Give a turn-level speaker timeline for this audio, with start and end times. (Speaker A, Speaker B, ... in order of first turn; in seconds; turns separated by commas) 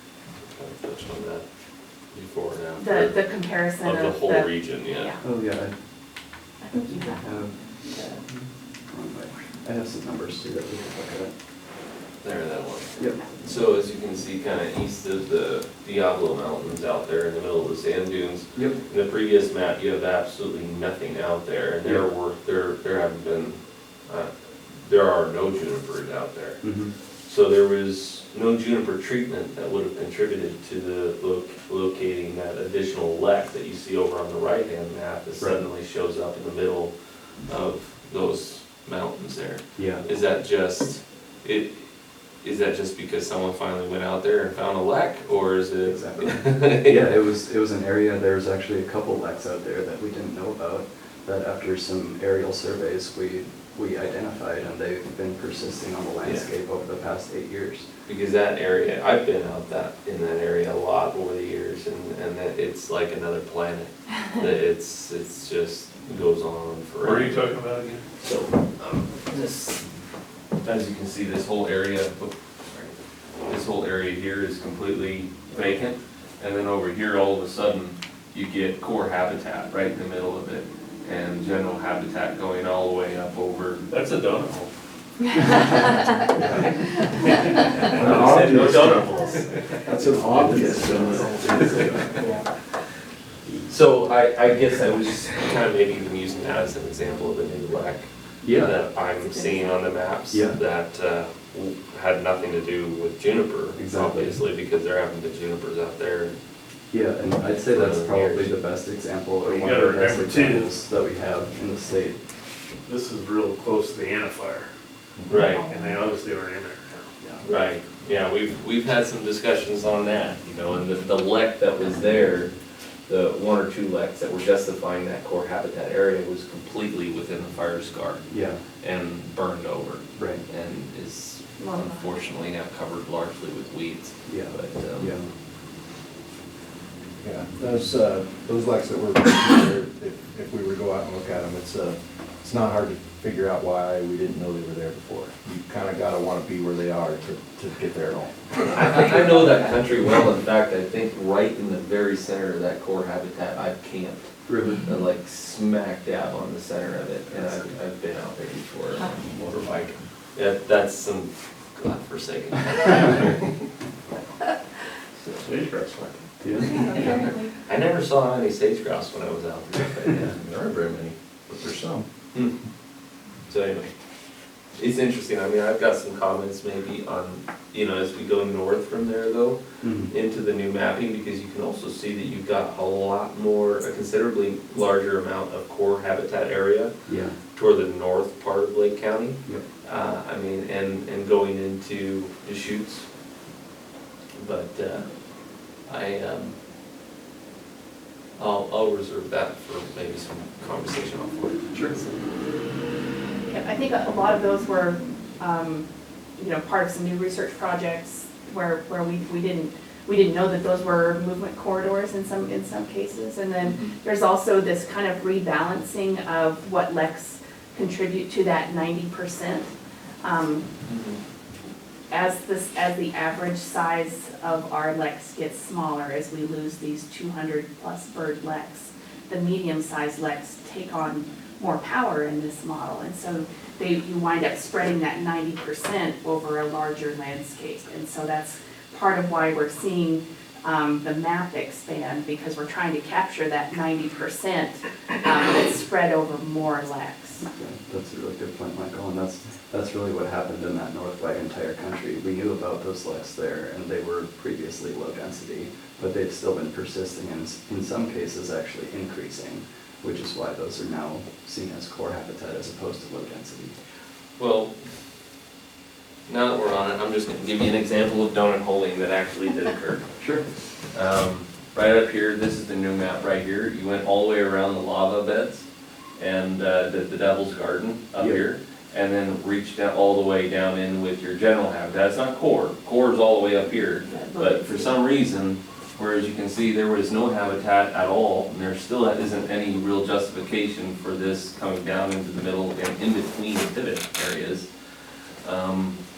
Speaker A: 0.4-1.4, Speaker A: 2.1-5.2, Speaker B: 2.8-5.2, Speaker C: 5.2-5.7, Speaker B: 6.6-8.2, Speaker C: 7.0-7.5, Speaker C: 8.9-11.3, Speaker A: 12.2-36.9, Speaker C: 26.6-26.9, Speaker A: 37.4-47.2, Speaker C: 39.8-40.0, Speaker C: 45.9-57.9, Speaker A: 56.2-56.5, Speaker A: 58.1-67.5, Speaker D: 67.0-68.0, Speaker A: 68.2-69.8, Speaker A: 70.6-73.0, Speaker A: 73.5-83.8, Speaker D: 83.9-84.7, Speaker E: 86.3-86.7, Speaker D: 87.9-89.0, Speaker E: 87.9-89.1, Speaker A: 87.9-89.8, Speaker D: 89.9-92.2, Speaker E: 90.0-92.2, Speaker A: 90.4-92.0, Speaker A: 93.7-106.3, Speaker C: 98.4-98.7, Speaker B: 99.0-99.8, Speaker C: 100.3-100.6, Speaker C: 103.8-104.4, Speaker C: 106.9-112.2, Speaker A: 107.6-108.5, Speaker D: 109.4-110.7, Speaker D: 112.9-114.7, Speaker A: 115.3-115.6, Speaker B: 115.3-115.9, Speaker D: 115.5-117.3, Speaker A: 117.4-122.5, Speaker A: 123.1-128.3, Speaker C: 128.3-128.6, Speaker A: 128.8-135.2, Speaker C: 130.2-130.4, Speaker B: 131.6-132.1, Speaker C: 134.3-135.3, Speaker E: 137.2-149.2, Speaker A: 148.7-163.6, Speaker C: 154.5-154.8, Speaker A: 165.2-165.5, Speaker D: 165.5-166.1, Speaker C: 166.4-166.8, Speaker A: 166.5-171.1, Speaker B: 166.7-167.4, Speaker E: 171.5-172.0, Speaker A: 172.3-172.6, Speaker A: 173.5-173.9, Speaker A: 174.8-186.9, Speaker C: 179.8-180.1, Speaker C: 187.1-187.3, Speaker A: 187.5-193.1, Speaker A: 194.3-195.1, Speaker A: 195.8-196.6, Speaker A: 198.4-202.1, Speaker C: 201.7-202.0, Speaker B: 203.5-219.7, Speaker A: 213.6-213.9, Speaker B: 220.2-220.7, Speaker A: 220.8-221.2, Speaker B: 222.1-247.4, Speaker C: 247.4-263.7, Speaker A: 264.4-264.8, Speaker A: 266.3-270.1, Speaker C: 270.2-270.4, Speaker A: 270.8-294.7, Speaker C: 278.2-278.4, Speaker B: 284.0-285.0, Speaker A: 295.4-296.0